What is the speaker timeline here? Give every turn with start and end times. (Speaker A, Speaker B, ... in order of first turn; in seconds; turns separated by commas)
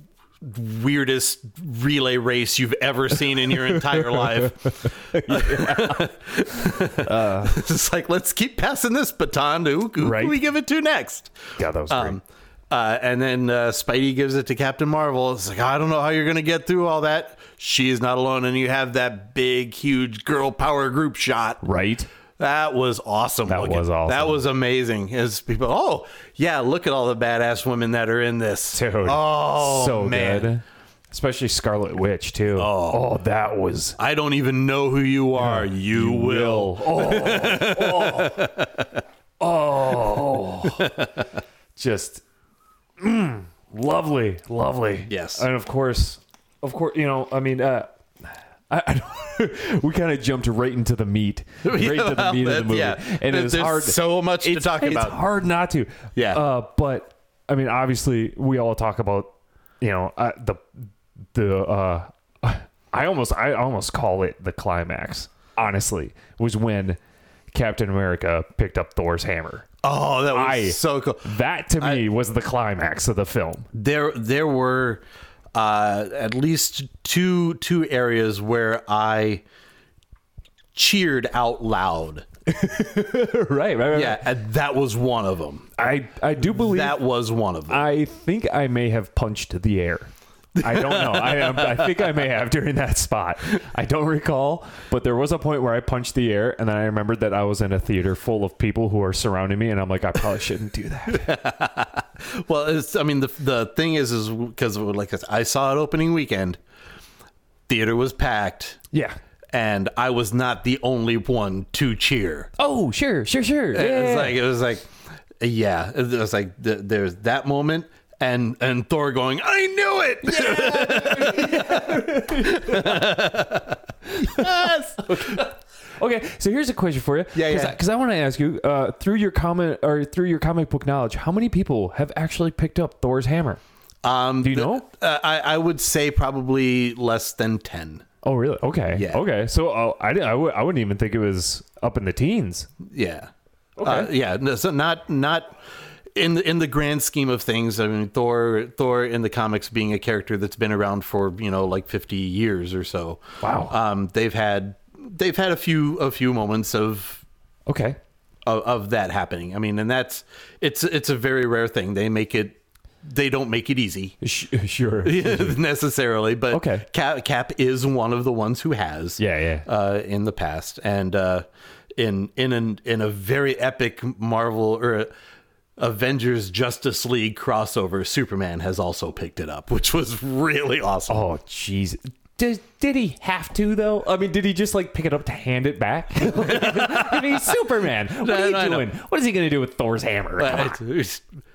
Speaker A: 0.4-11.4, Speaker B: 3.6-6.1, Speaker B: 6.9-7.5, Speaker B: 10.0-10.4, Speaker B: 11.6-12.2, Speaker A: 11.9-21.6, Speaker B: 21.6-22.1, Speaker A: 22.4-30.5, Speaker B: 23.5-24.4, Speaker B: 28.7-34.0, Speaker A: 32.5-33.0, Speaker A: 34.0-39.0, Speaker B: 35.4-38.5, Speaker B: 39.4-40.9, Speaker A: 40.8-41.1, Speaker B: 41.8-42.2, Speaker B: 43.0-60.6, Speaker A: 45.1-45.4, Speaker A: 51.6-55.2, Speaker A: 56.1-56.4, Speaker B: 61.3-67.0, Speaker B: 67.5-69.7, Speaker A: 69.8-72.0, Speaker B: 70.3-73.7, Speaker A: 73.7-75.0, Speaker A: 75.5-79.4, Speaker A: 80.7-82.2, Speaker B: 82.5-84.2, Speaker A: 83.9-85.7, Speaker B: 85.8-87.0, Speaker A: 86.4-87.8, Speaker B: 87.7-101.3, Speaker A: 90.6-92.2, Speaker A: 101.1-106.6, Speaker A: 107.7-108.8, Speaker B: 108.9-109.2, Speaker A: 109.5-112.5, Speaker B: 112.6-114.4, Speaker A: 113.7-125.4, Speaker B: 120.2-123.2, Speaker B: 124.1-133.6, Speaker A: 127.3-127.8, Speaker A: 134.0-138.0, Speaker B: 134.4-134.8, Speaker B: 138.2-142.7, Speaker A: 138.9-139.2, Speaker A: 142.8-143.3, Speaker B: 143.8-144.1, Speaker A: 143.8-145.6, Speaker A: 146.1-157.2, Speaker B: 153.4-153.7, Speaker B: 157.7-158.0, Speaker A: 158.4-164.2, Speaker B: 164.2-165.6, Speaker A: 165.0-171.4, Speaker B: 166.5-166.9, Speaker B: 169.2-169.7, Speaker A: 171.9-175.1, Speaker A: 175.8-181.2, Speaker B: 181.1-190.8, Speaker A: 186.3-187.6, Speaker A: 188.2-188.9, Speaker A: 190.4-191.2